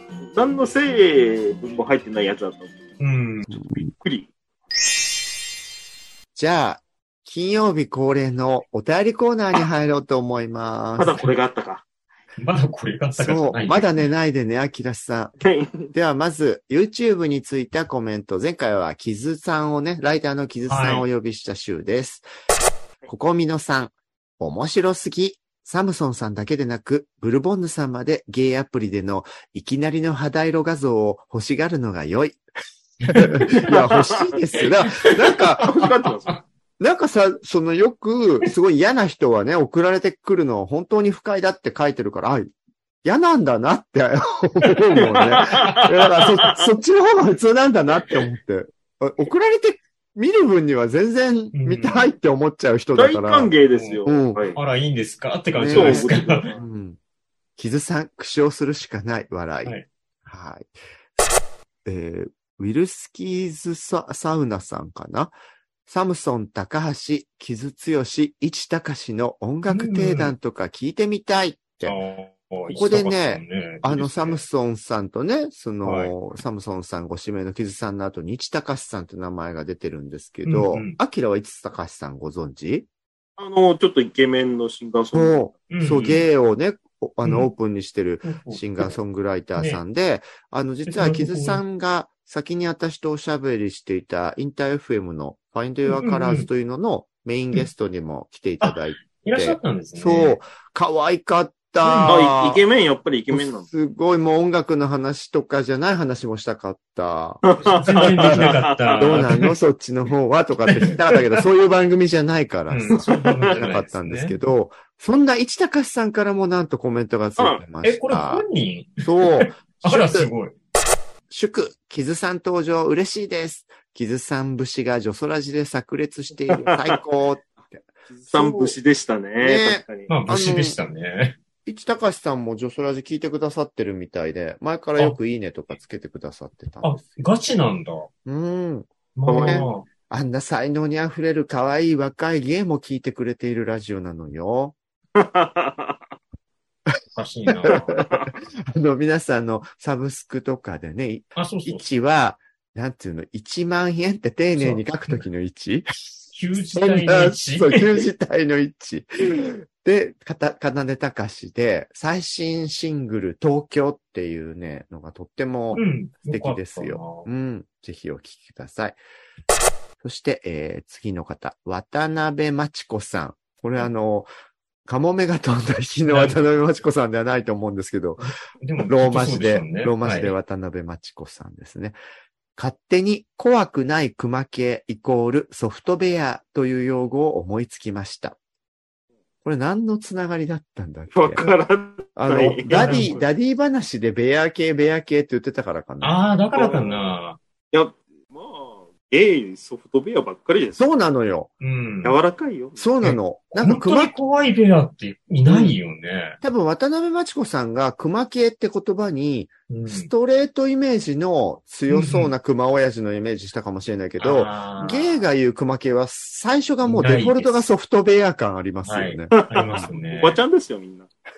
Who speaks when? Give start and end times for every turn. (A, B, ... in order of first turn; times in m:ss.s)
0:00.3-0:02.8 A
0:03.0-0:03.6 B
0:03.5-0:03.9 C
0:03.9-0:04.3 A
0:06.4-0:11.2 C
0:11.0-0:11.8 A
0:12.4-0:14.0 B
0:13.2-0:15.4 C
0:15.4-0:15.9 A
0:15.9-0:22.2 C
0:20.7-0:21.0 B
0:23.1-0:32.4 C
0:33.0-0:33.7 B
0:33.1-0:35.9 C
0:33.7-0:34.3 A
0:35.6-0:36.4 A
0:35.8-0:36.4 B
0:36.8-0:42.5 C
0:43.0-0:53.5 C
0:45.1-0:46.5 A
0:51.5-0:52.1 B
0:52.9-0:54.6 A
0:53.7-0:54.0 B
0:54.0-0:54.4 C
0:54.5-0:56.5 B
0:55.5-0:57.0 C
0:55.7-0:56.6 A
0:57.6-1:00.7 C
1:01.8-1:05.3 C
1:05.9-1:12.0 C
1:09.7-1:10.3 B
1:11.8-1:14.4 B
1:12.7-1:22.8 C
1:15.8-1:16.1 B
1:20.4-1:21.0 B
1:23.4-1:25.4 A
1:25.1-1:42.6 C
1:25.7-1:26.2 B
1:27.2-1:27.5 B
1:28.2-1:28.9 B
1:29.6-1:29.8 B
1:30.8-1:31.6 B
1:35.9-1:36.5 B
1:38.6-1:40.4 B
1:41.8-1:42.2 B
1:42.1-1:43.7 A
1:43.3-1:58.4 C
1:47.4-1:49.2 A
1:47.6-1:49.5 B
1:50.7-1:50.9 B
1:52.7-1:54.3 B
1:57.8-2:00.5 B
1:59.0-2:00.3 C
2:01.3-2:08.7 C
2:06.5-2:07.0 A
2:08.2-2:10.1 A
2:09.4-2:10.8 C
2:10.1-2:11.4 B
2:11.6-2:17.2 C
2:16.8-2:18.1 B
2:18.2-2:24.8 C
2:19.2-2:19.8 B
2:19.2-2:19.7 A
2:25.2-2:26.0 A
2:27.1-2:27.9 B
2:27.5-2:35.9 C
2:27.7-2:28.3 A
2:31.4-2:31.8 B
2:34.6-2:35.2 B
2:36.3-2:38.0 B
2:36.7-2:49.0 C
2:45.7-2:47.3 B
2:50.0-2:54.3 C
2:54.8-2:58.2 C
2:56.1-2:56.4 B
2:58.2-3:00.3 B
2:58.9-3:02.0 C
3:02.6-3:08.4 C
3:09.4-3:11.5 C
3:11.1-3:13.2 A
3:12.2-3:16.2 C
3:12.6-3:13.2 B
3:16.0-3:17.4 B
3:16.5-3:17.0 A
3:17.7-3:20.8 A
3:20.8-3:21.5 C
3:21.6-3:22.2 B
3:22.0-3:22.9 A
3:22.8-3:24.1 C
3:23.0-3:26.4 B
3:25.4-3:25.8 C
3:26.4-3:39.9 C
3:29.7-3:30.1 B
3:31.9-3:32.3 B
3:34.2-3:35.3 B
3:36.8-3:37.7 B
3:38.8-3:40.4 B
3:39.3-3:41.1 A